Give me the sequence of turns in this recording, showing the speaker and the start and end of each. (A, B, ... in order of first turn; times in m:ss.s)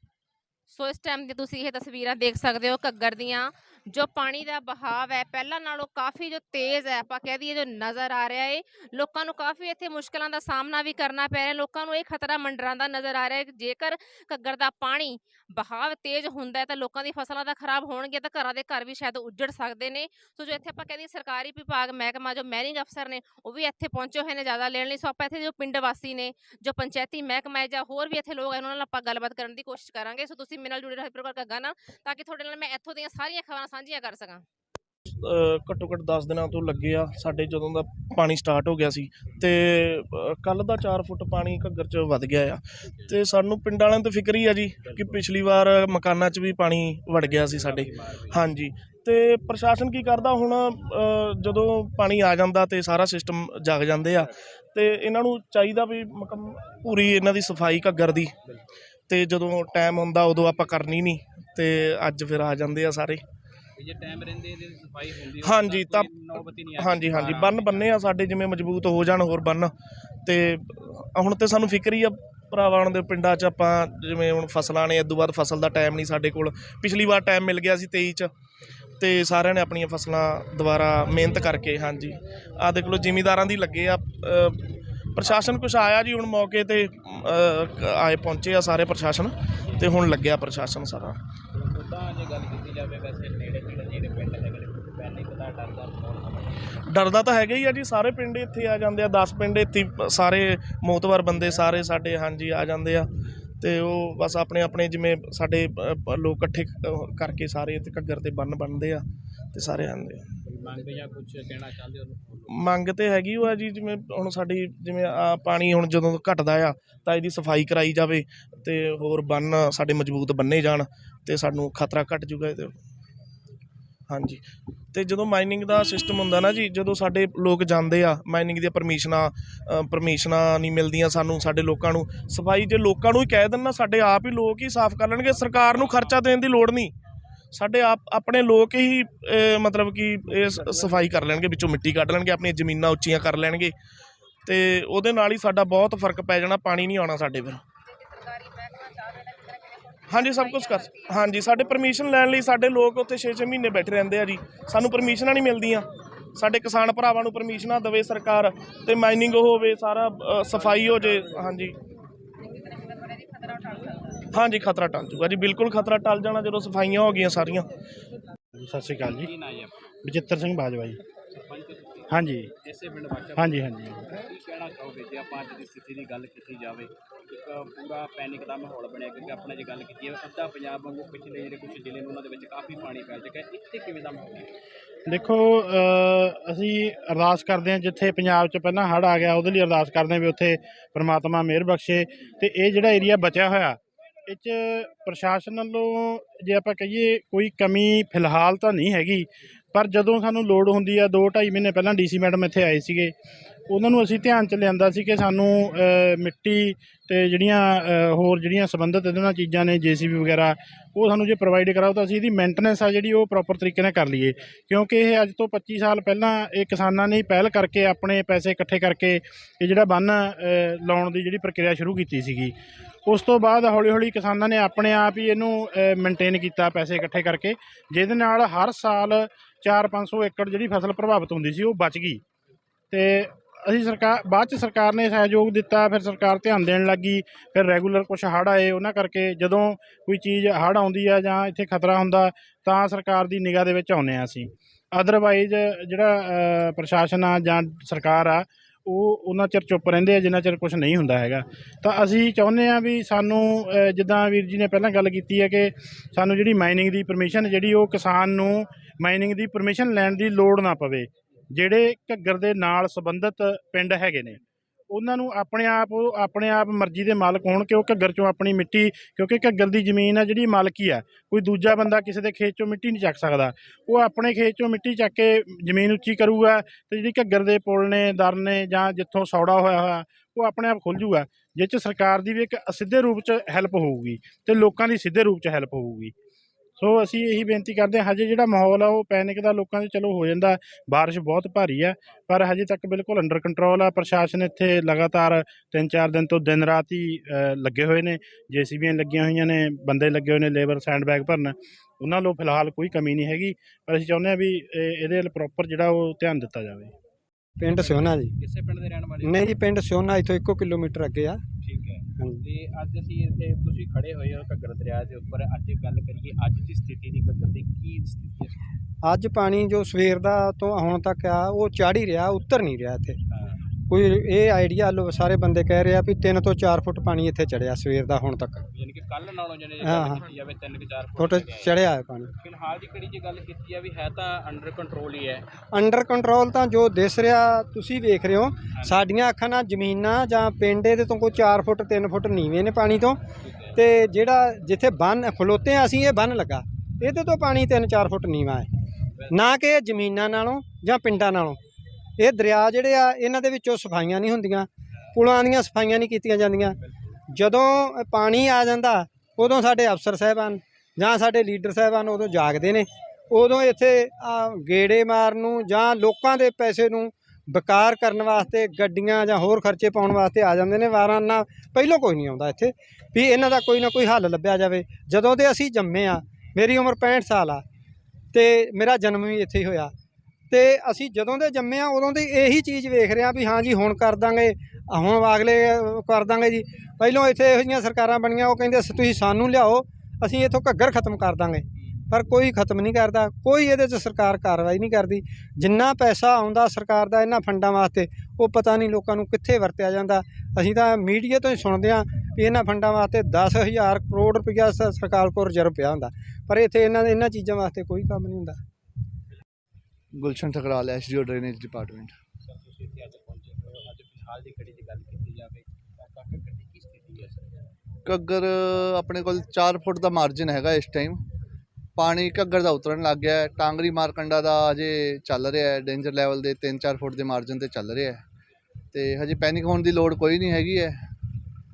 0:00.7-0:34.4 A
0:35.1-0:58.3 B
0:42.8-0:43.2 C
0:44.8-0:45.2 C
0:47.4-0:48.4 C
0:54.1-0:54.5 C
0:58.4-0:58.8 C
0:59.1-1:03.2 B
1:03.8-1:08.0 C
1:05.4-1:06.1 B
1:06.8-1:09.7 B
1:10.2-1:18.3 B
1:19.0-1:24.6 B
1:25.1-1:31.2 B
1:31.5-1:36.6 C
1:36.9-1:43.1 B
1:43.6-1:50.3 B
1:50.4-1:52.6 C
1:52.5-2:02.8 B
2:04.1-2:04.4 B
2:04.9-2:16.9 B
2:15.4-2:16.2 C
2:17.5-2:23.7 B
2:24.4-2:27.6 B
2:27.9-2:31.2 A
2:30.1-2:41.8 B
2:42.5-2:44.2 A
2:44.3-2:47.7 B
2:48.6-2:49.3 D
2:49.1-2:49.7 C
2:50.0-2:51.0 D
2:51.3-3:04.5 C
2:52.1-2:52.5 D
2:53.4-2:54.1 D
3:05.1-3:23.1 D
3:23.7-3:42.5 D
3:43.1-3:52.2 D
3:52.9-4:24.4 D
4:24.9-4:46.1 D
4:46.8-5:06.9 D
5:07.6-5:08.3 E
5:07.8-5:09.5 C
5:09.2-5:11.4 E
5:11.6-5:18.6 C
5:19.0-5:23.2 E
5:23.3-5:23.6 C
5:23.9-5:28.6 E
5:28.7-5:31.8 C
5:29.8-5:30.2 E
5:31.2-5:32.3 E
5:32.4-5:35.5 C
5:35.7-5:43.2 E
5:38.8-5:39.0 C
5:43.4-5:43.8 C
5:43.7-5:48.7 E
5:49.1-5:49.4 C
5:49.3-5:51.6 E
5:52.2-5:56.8 E
5:56.8-5:57.2 C
5:57.3-6:17.6 E
6:18.3-6:19.9 E
6:20.5-6:48.6 E
6:50.1-6:52.1 F
6:52.4-6:57.7 C
6:58.0-7:01.2 F
7:02.0-7:08.2 F
7:08.9-7:11.0 F